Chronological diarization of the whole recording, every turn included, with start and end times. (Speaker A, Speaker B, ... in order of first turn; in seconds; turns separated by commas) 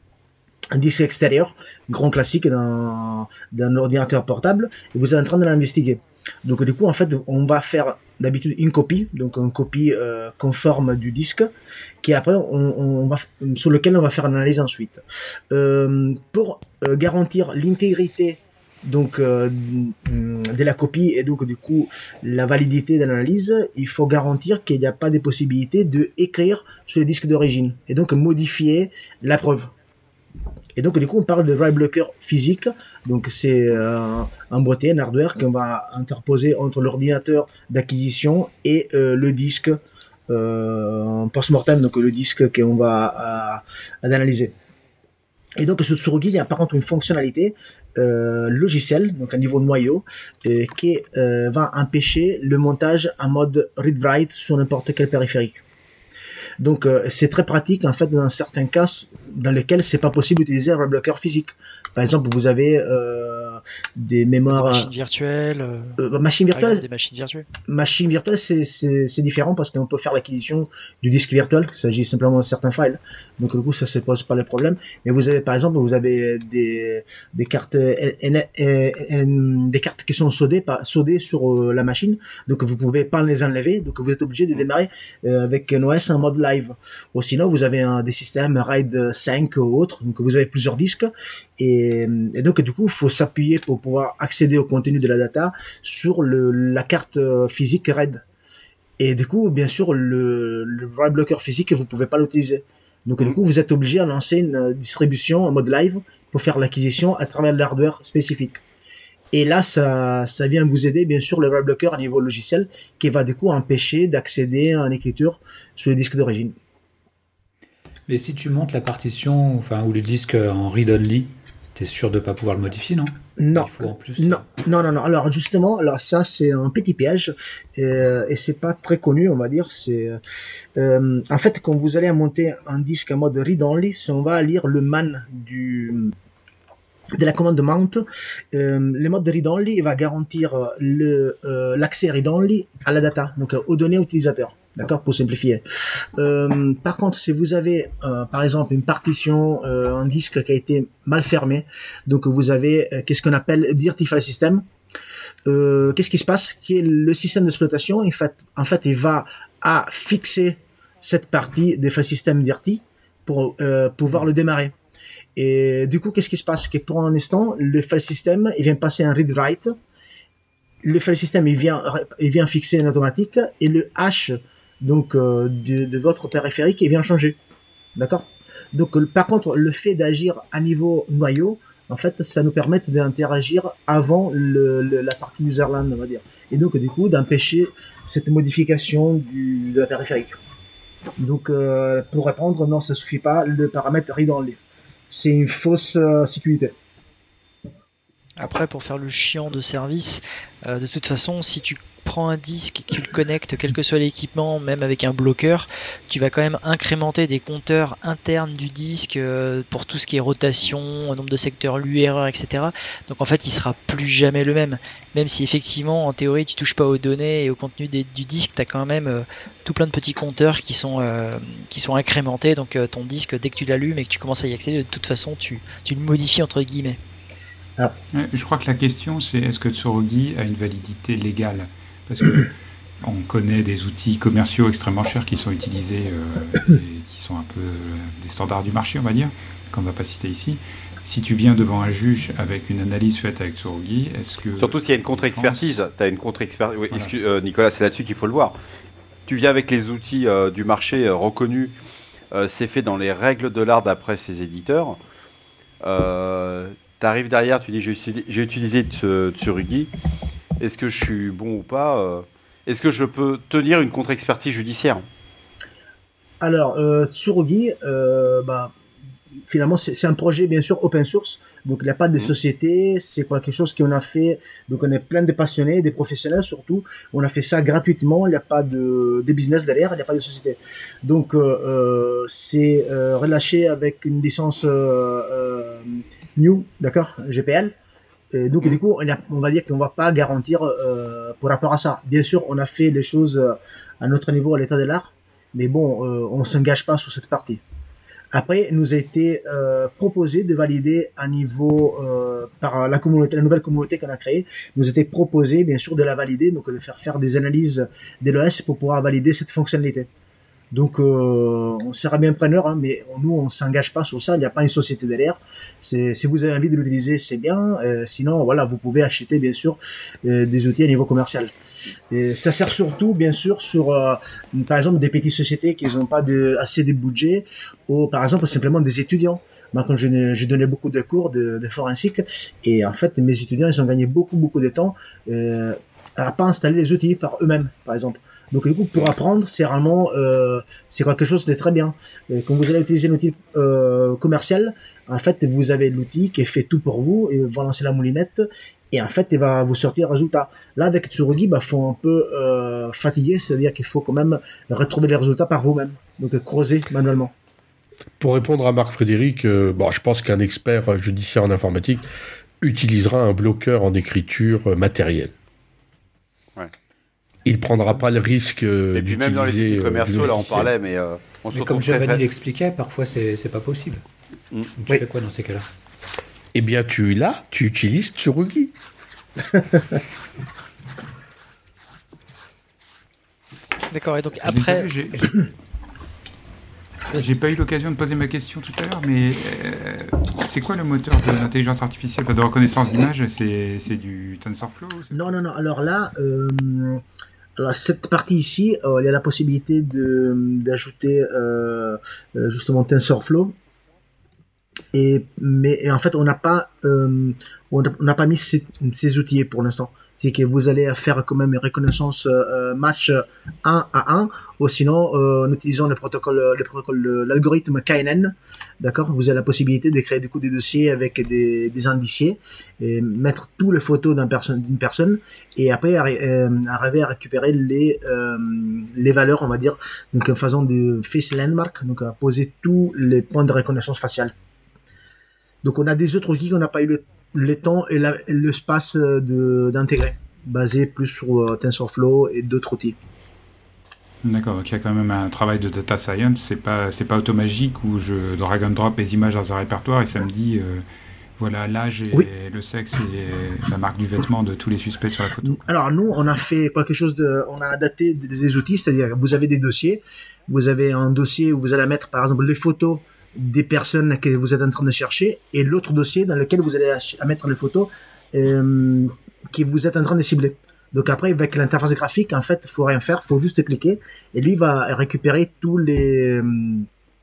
Speaker A: 0.7-11.5, Speaker A: 12.0-29.7, Speaker A: 30.8-44.5, Speaker A: 45.6-55.6, Speaker A: 56.6-64.9, Speaker B: 64.5-66.0, Speaker A: 66.0-66.8, Speaker B: 66.5-67.5, Speaker A: 67.7-98.2, Speaker A: 99.0-108.6, Speaker A: 109.3-116.5, Speaker C: 118.1-124.5, Speaker A: 123.4-130.2, Speaker A: 130.8-136.2, Speaker A: 137.2-154.7, Speaker A: 155.5-164.8, Speaker A: 165.4-169.8, Speaker A: 170.8-177.4, Speaker A: 178.0-190.4, Speaker A: 191.2-196.7, Speaker B: 198.4-227.0, Speaker D: 228.1-245.8, Speaker E: 244.6-248.6, Speaker E: 249.3-251.8, Speaker E: 252.3-255.0, Speaker E: 255.8-259.9, Speaker E: 260.6-265.1, Speaker A: 266.4-268.7, Speaker A: 269.5-287.7, Speaker A: 288.3-297.6, Speaker A: 298.3-310.1, Speaker A: 310.7-321.5, Speaker A: 322.1-357.3, Speaker F: 358.2-362.1, Speaker F: 362.6-365.3, Speaker F: 367.4-370.7, Speaker E: 368.9-372.2, Speaker C: 371.5-374.0, Speaker C: 374.8-375.7, Speaker F: 376.6-378.7, Speaker A: 379.5-380.0, Speaker B: 383.9-384.9, Speaker D: 384.4-385.5, Speaker D: 387.1-395.4, Speaker A: 395.1-397.0, Speaker A: 397.6-403.6, Speaker A: 404.9-434.3, Speaker A: 435.6-443.0, Speaker D: 444.2-450.8, Speaker D: 451.4-455.6, Speaker A: 455.4-476.9